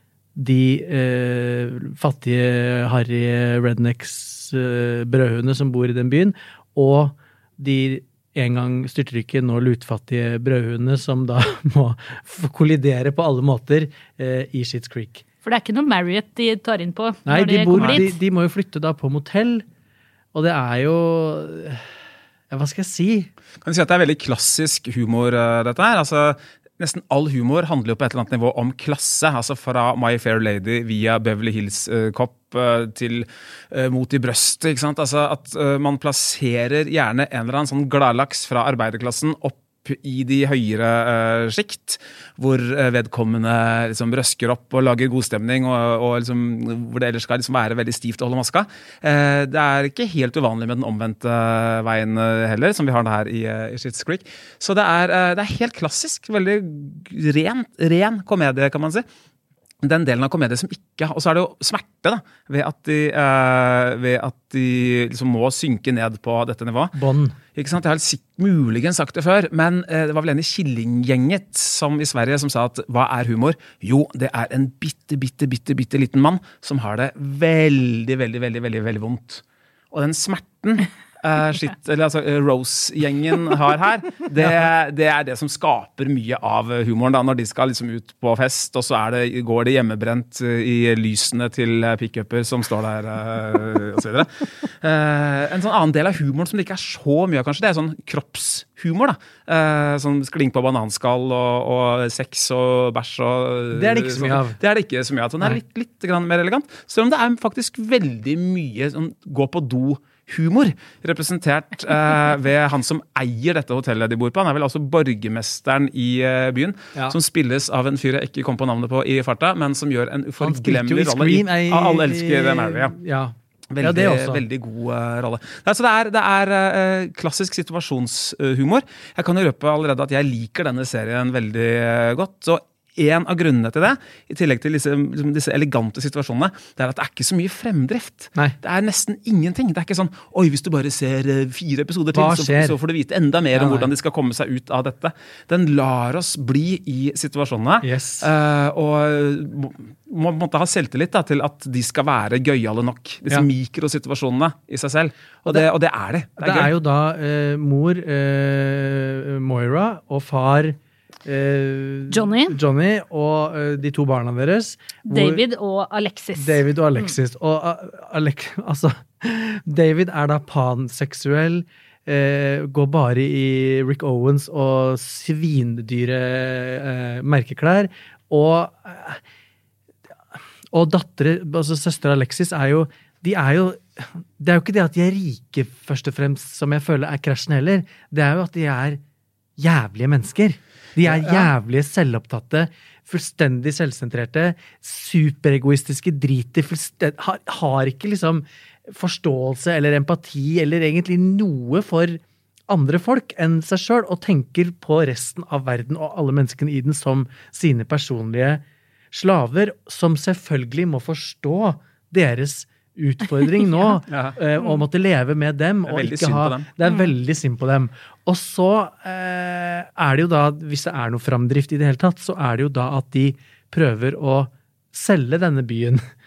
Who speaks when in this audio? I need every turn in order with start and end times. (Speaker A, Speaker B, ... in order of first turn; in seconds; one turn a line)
Speaker A: 0.3-15.2
Speaker B: 15.4-18.1
Speaker A: 17.2-19.6
Speaker C: 17.8-18.0
Speaker A: 20.3-21.9
Speaker A: 22.5-23.3
Speaker C: 23.6-59.0
Speaker C: 59.8-66.9
Speaker A: 66.9-67.3
Speaker C: 67.5-123.0
Speaker A: 103.7-104.6
Speaker A: 120.4-124.4
Speaker C: 123.7-156.7
Speaker A: 142.1-142.8
Speaker A: 143.5-143.9
Speaker A: 147.8-148.3
Speaker A: 156.4-165.4
Speaker B: 162.1-162.6
Speaker B: 165.1-167.1
Speaker A: 166.3-179.2
Speaker A: 180.3-189.0
Speaker A: 189.6-226.0
Speaker C: 191.1-191.4
Speaker B: 213.6-213.9
Speaker C: 214.1-214.3
Speaker C: 215.9-216.7